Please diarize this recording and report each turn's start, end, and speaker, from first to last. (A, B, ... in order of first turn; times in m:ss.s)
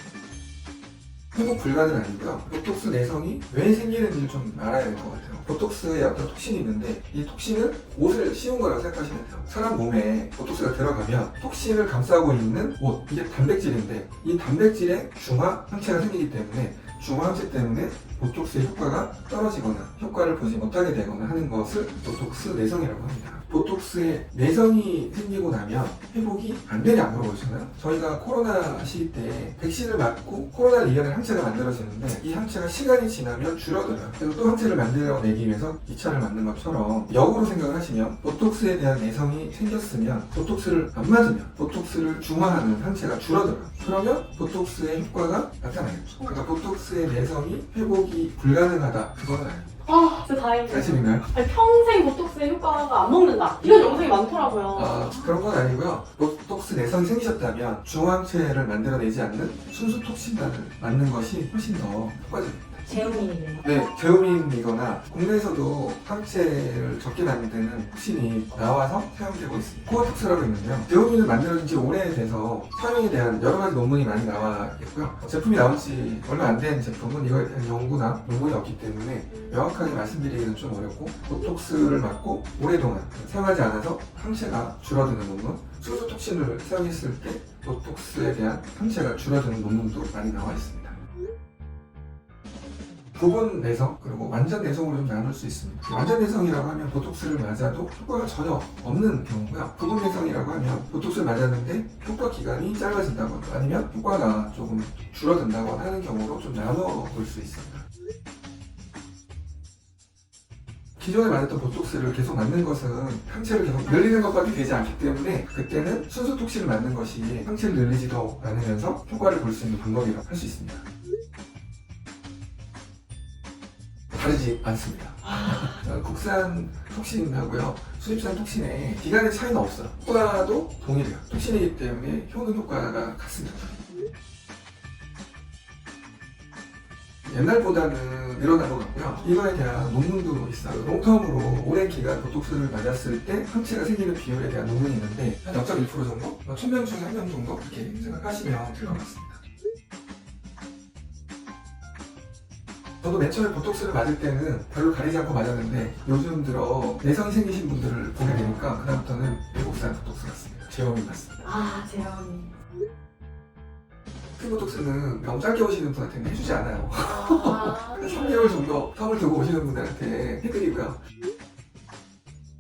0:01.3-0:49.7 A
0:49.9-0:55.4 B
0:50.7-0:51.3 A
0:54.7-1:31.0 A
1:02.9-1:03.6 B
1:33.2-1:47.8 A
1:51.0-2:00.8 A
2:04.2-2:13.8 A
2:17.2-2:29.4 A
2:33.0-2:41.4 A
2:41.4-2:42.5 B
2:44.4-2:51.0 A
2:47.0-2:48.5 B